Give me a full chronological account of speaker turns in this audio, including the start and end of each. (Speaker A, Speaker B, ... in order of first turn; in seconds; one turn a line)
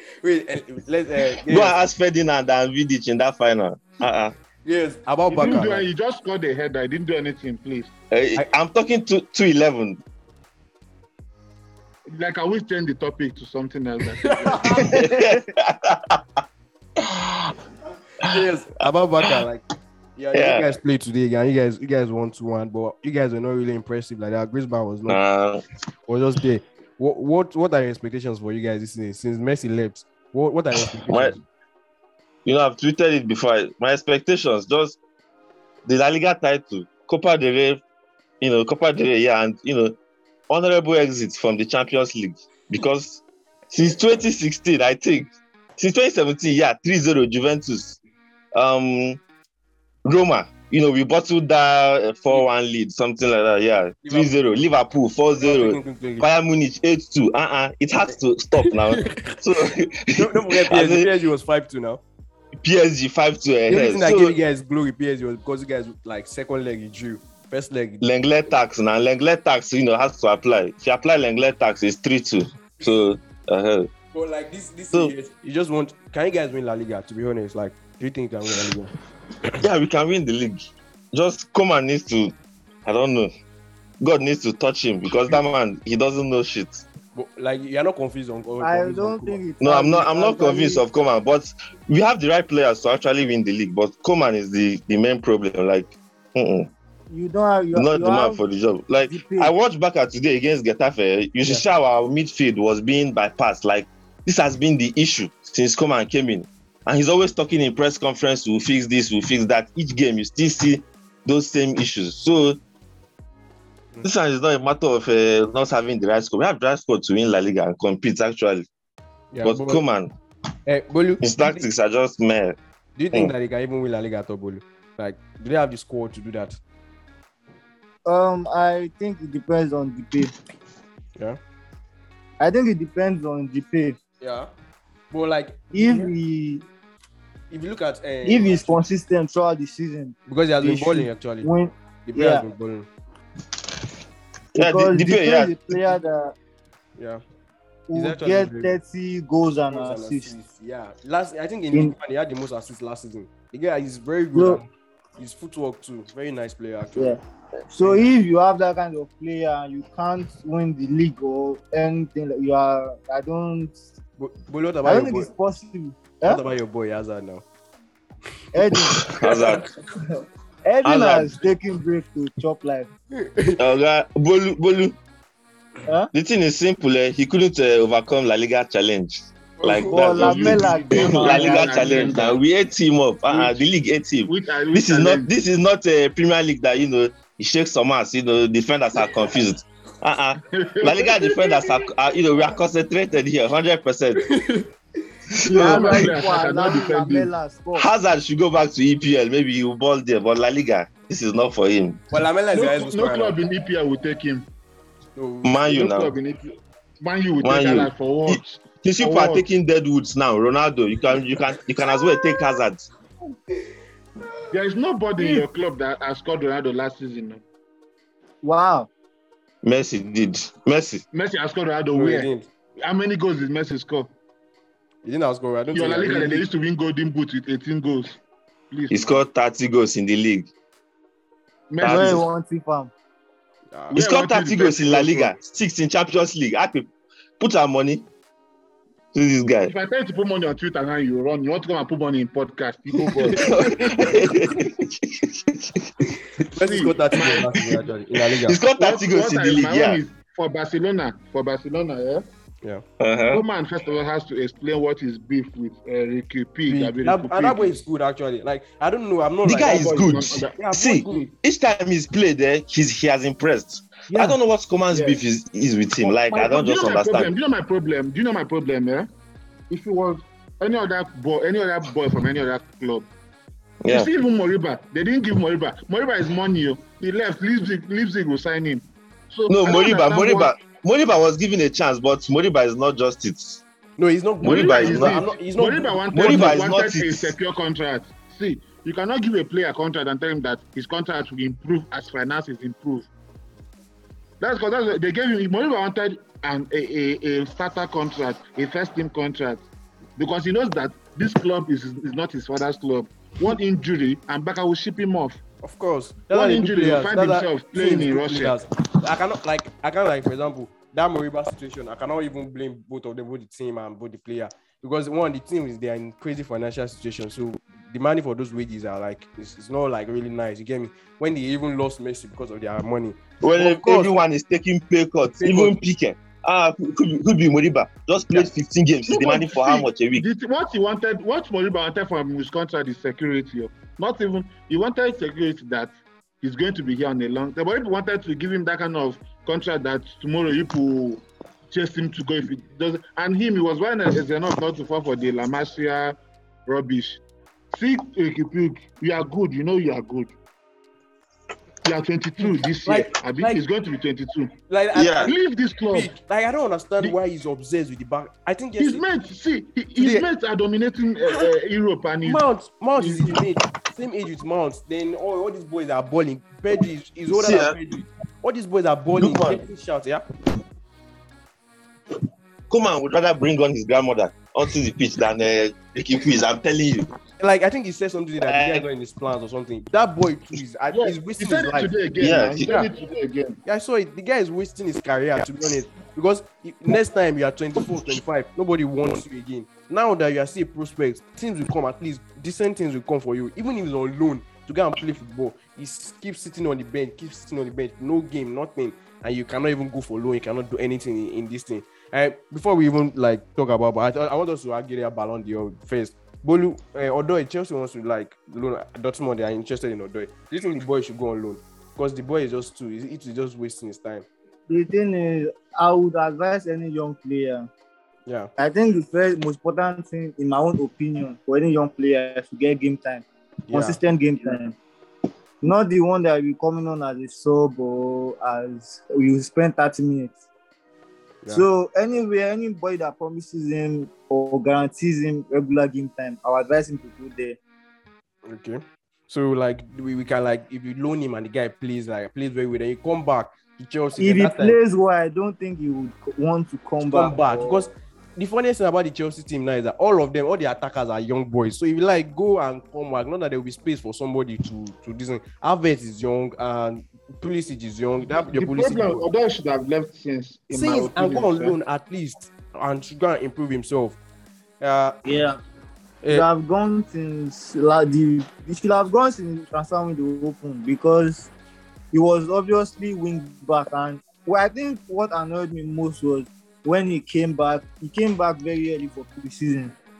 Speaker A: 0.2-1.8
Speaker B: 1.2-4.3
Speaker A: 4.6-5.8
Speaker C: 5.3-7.9
Speaker B: 8.1-10.0
Speaker C: 12.1-15.0
Speaker A: 14.4-15.0
Speaker B: 14.8-16.2
Speaker B: 17.0-17.5
Speaker A: 18.2-19.6
Speaker A: 20.2-25.2
Speaker B: 20.3-20.7
Speaker B: 25.1-25.6
Speaker A: 26.1-31.4
Speaker B: 30.8-31.4
Speaker B: 32.4-35.0
Speaker B: 35.9-37.8
Speaker B: 38.4-40.0
Speaker B: 40.5-48.0
Speaker B: 48.5-49.2
Speaker B: 50.0-61.1
Speaker A: 54.0-54.3
Speaker A: 55.4-56.3
Speaker A: 58.6-59.4
Speaker A: 60.1-62.0
Speaker B: 62.6-64.4
Speaker A: 63.7-68.1
Speaker B: 68.0-73.9
Speaker A: 74.1-78.9
Speaker B: 79.6-82.3
Speaker B: 82.9-83.3
Speaker B: 84.0-86.8
Speaker A: 87.1-89.4
Speaker D: 88.6-90.8
Speaker B: 89.6-96.7
Speaker D: 97.1-98.4
Speaker B: 97.7-112.6
Speaker D: 99.0-99.5
Speaker B: 114.0-118.7
Speaker A: 119.3-119.8
Speaker B: 119.4-120.1
Speaker A: 120.7-121.6
Speaker B: 121.2-122.6
Speaker A: 123.0-126.6
Speaker D: 128.0-130.3
Speaker D: 132.4-134.0
Speaker A: 134.2-134.5
Speaker A: 135.1-136.1
Speaker D: 135.7-136.6
Speaker A: 137.5-138.8
Speaker D: 138.2-142.4
Speaker A: 140.3-141.5
Speaker A: 142.1-142.9
Speaker B: 144.5-145.6
Speaker D: 144.6-146.3
Speaker A: 147.0-147.2
Speaker D: 147.9-150.3
Speaker A: 147.9-148.8
Speaker A: 149.7-154.7
Speaker D: 154.3-154.6
Speaker A: 155.2-157.2
Speaker D: 157.7-163.8
Speaker A: 157.8-158.1
Speaker A: 164.2-165.3
Speaker D: 164.8-166.4
Speaker A: 166.2-167.4
Speaker D: 168.5-169.0
Speaker A: 168.9-169.6
Speaker B: 169.0-169.7
Speaker D: 170.6-172.9
Speaker B: 170.8-171.4
Speaker A: 173.2-173.6
Speaker B: 173.6-175.0
Speaker B: 176.1-194.2
Speaker A: 179.6-180.3
Speaker D: 179.9-181.9
Speaker C: 180.1-182.4
Speaker C: 183.3-183.6
Speaker C: 184.2-185.3
Speaker C: 190.5-191.7
Speaker A: 194.2-194.7
Speaker B: 195.3-196.1
Speaker C: 195.5-197.3
Speaker D: 195.5-197.9
Speaker B: 197.7-202.0
Speaker A: 202.1-203.4
Speaker C: 202.5-204.5
Speaker A: 205.2-205.6
Speaker B: 205.4-206.1
Speaker C: 205.7-209.4
Speaker B: 207.4-212.9
Speaker C: 214.5-217.4
Speaker D: 218.4-218.9
Speaker B: 219.6-221.0
Speaker C: 221.1-222.3
Speaker A: 221.9-222.5
Speaker C: 222.8-224.1
Speaker A: 225.0-226.5
Speaker C: 225.7-228.2
Speaker C: 228.7-229.2
Speaker B: 228.9-230.5
Speaker C: 231.7-232.2
Speaker B: 231.8-232.2
Speaker D: 231.8-232.9
Speaker A: 233.7-234.0
Speaker B: 233.9-238.1
Speaker C: 233.9-235.3
Speaker B: 239.1-239.7
Speaker C: 239.6-244.1
Speaker A: 243.2-243.5
Speaker B: 243.3-246.1
Speaker A: 246.5-248.6
Speaker C: 246.6-247.7
Speaker B: 248.4-250.0
Speaker C: 248.8-252.2
Speaker B: 253.0-253.4
Speaker C: 253.3-257.8
Speaker A: 256.7-261.3
Speaker B: 259.4-267.3
Speaker C: 259.6-260.6
Speaker C: 264.9-265.2
Speaker C: 266.0-269.1
Speaker C: 269.7-273.1
Speaker B: 273.8-274.1
Speaker C: 273.9-280.5
Speaker B: 279.5-283.6
Speaker A: 284.0-286.6
Speaker B: 284.4-285.2
Speaker C: 284.4-293.1
Speaker B: 286.1-287.3
Speaker C: 294.4-299.6
Speaker C: 300.2-305.4
Speaker A: 305.6-324.1
Speaker C: 306.3-308.6
Speaker B: 323.4-330.2
Speaker A: 325.4-325.7
Speaker C: 329.1-347.2
Speaker C: 347.7-350.3
Speaker C: 351.8-354.5
Speaker A: 352.4-353.6
Speaker A: 354.7-355.4
Speaker B: 354.9-355.3
Speaker C: 355.2-356.1
Speaker A: 355.9-359.0
Speaker C: 358.8-362.4
Speaker A: 360.0-360.3
Speaker A: 362.2-370.2
Speaker C: 362.9-363.4
Speaker B: 367.3-367.8
Speaker B: 369.2-369.6
Speaker B: 372.7-377.1
Speaker A: 377.4-381.9
Speaker B: 378.4-378.9
Speaker C: 380.9-383.6
Speaker B: 382.2-382.7
Speaker A: 382.6-382.9
Speaker A: 383.6-414.2
Speaker D: 414.7-417.7
Speaker D: 418.6-424.8
Speaker A: 423.7-424.0
Speaker D: 425.6-430.4
Speaker D: 431.5-437.6
Speaker A: 438.5-444.8
Speaker D: 444.2-447.9
Speaker A: 447.0-459.3
Speaker C: 458.3-461.8
Speaker A: 460.7-464.2
Speaker A: 464.8-465.1
Speaker D: 465.2-465.6
Speaker D: 466.3-471.5
Speaker D: 472.1-479.9